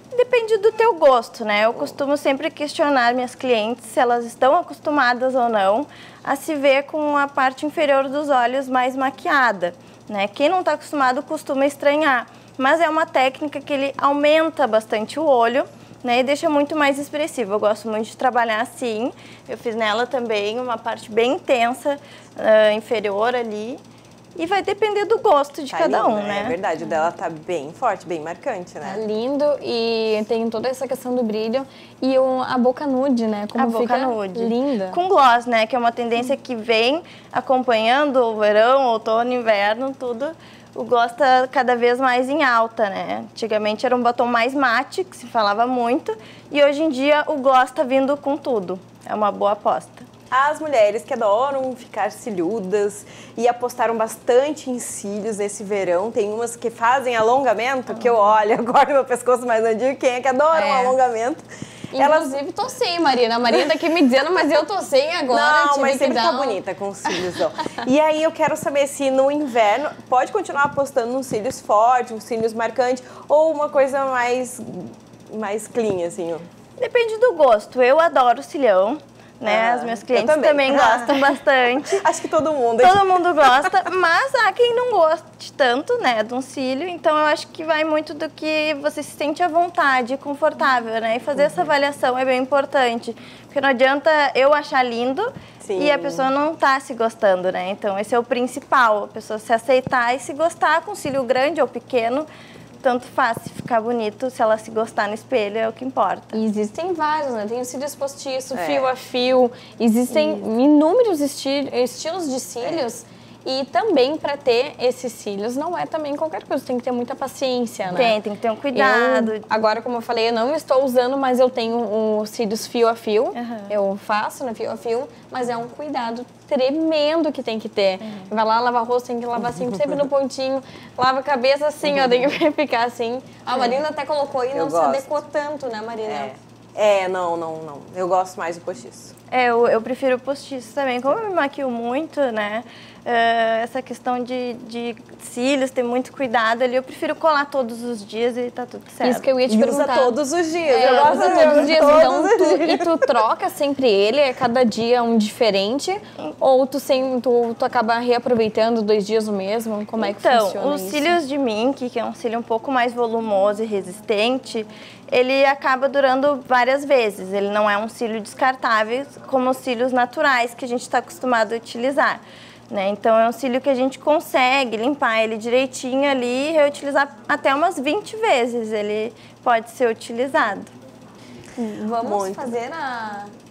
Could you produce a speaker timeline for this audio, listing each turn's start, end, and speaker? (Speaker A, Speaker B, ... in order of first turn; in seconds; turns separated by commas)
Speaker A: 0.1-23.8, Speaker A: 24.4-26.5, Speaker B: 25.7-29.0, Speaker C: 28.8-35.0, Speaker A: 33.5-50.0, Speaker B: 50.3-61.4, Speaker C: 60.5-61.0, Speaker C: 61.9-67.2, Speaker B: 62.0-62.3, Speaker B: 65.3-76.5, Speaker A: 76.8-82.0, Speaker B: 79.4-83.6, Speaker A: 82.8-102.3, Speaker B: 91.3-91.7, Speaker B: 95.6-96.3, Speaker A: 102.8-106.3, Speaker C: 106.3-118.2, Speaker B: 108.5-108.9, Speaker A: 110.1-110.4, Speaker B: 112.6-112.9, Speaker A: 117.9-119.4, Speaker C: 118.7-136.3, Speaker A: 123.3-123.7, Speaker B: 129.4-130.0, Speaker B: 131.8-132.3, Speaker A: 133.5-133.8, Speaker B: 134.5-135.1, Speaker B: 136.0-139.1, Speaker A: 139.3-149.2, Speaker C: 149.0-150.2, Speaker B: 149.5-153.1, Speaker C: 150.7-161.2, Speaker A: 150.8-151.9, Speaker A: 160.0-180.7, Speaker C: 181.6-183.3, Speaker B: 182.0-182.5